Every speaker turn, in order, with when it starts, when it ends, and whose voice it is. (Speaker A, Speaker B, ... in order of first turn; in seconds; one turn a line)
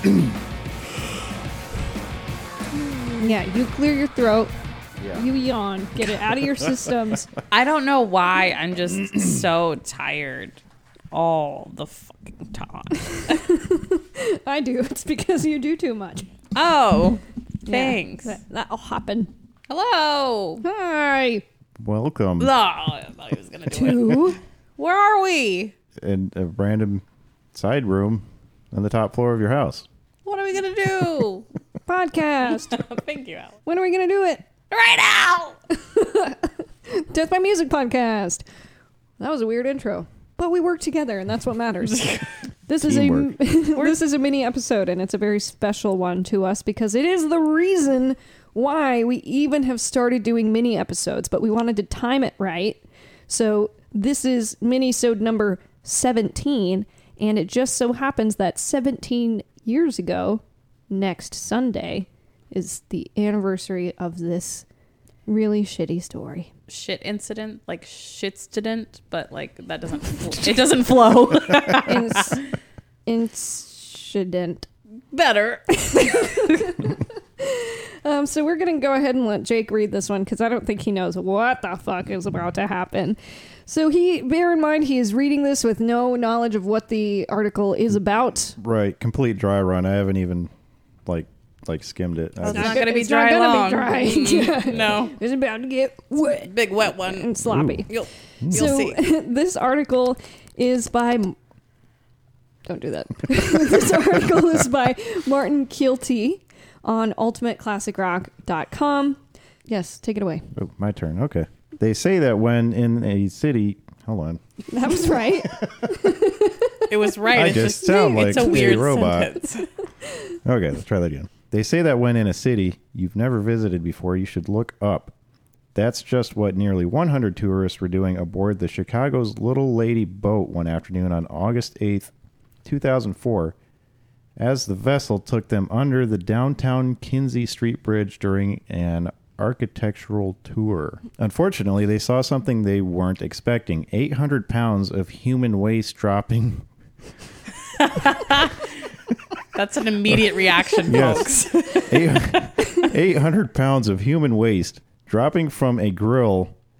Speaker A: 2.8-3.4
Speaker B: 3.2-4.5
Speaker B: 5.1-7.3
Speaker A: 7.5-10.6
Speaker A: 11.1-13.4
Speaker B: 13.0-16.3
Speaker A: 16.6-18.4
Speaker B: 17.7-19.3
Speaker A: 19.7-20.6
Speaker B: 20.6-21.4
Speaker C: 21.8-22.5
Speaker A: 22.4-25.7
Speaker B: 23.7-24.4
Speaker C: 26.0-29.9
Speaker A: 30.2-31.5
Speaker B: 31.9-32.7
Speaker A: 32.5-33.6
Speaker B: 33.7-34.5
Speaker A: 34.7-35.6
Speaker B: 35.7-38.5
Speaker B: 39.2-64.7
Speaker C: 42.8-43.4
Speaker B: 65.3-66.5
Speaker A: 66.7-72.4
Speaker B: 71.8-72.4
Speaker B: 73.1-74.7
Speaker A: 75.1-76.8
Speaker B: 75.8-88.6
Speaker C: 88.6-90.5
Speaker C: 91.1-92.8
Speaker A: 92.4-95.2
Speaker B: 92.5-97.9
Speaker A: 96.2-99.0
Speaker C: 97.5-97.9
Speaker C: 98.4-98.8
Speaker B: 98.5-101.4
Speaker B: 102.7-110.5
Speaker C: 110.6-114.4
Speaker B: 114.7-116.9
Speaker C: 115.1-115.7
Speaker A: 116.9-119.7
Speaker C: 117.3-119.3
Speaker B: 117.5-120.3
Speaker C: 120.5-125.1
Speaker C: 125.8-132.1
Speaker C: 132.7-133.6
Speaker C: 134.4-146.7
Speaker A: 147.8-148.7
Speaker A: 149.5-152.3
Speaker C: 150.8-156.6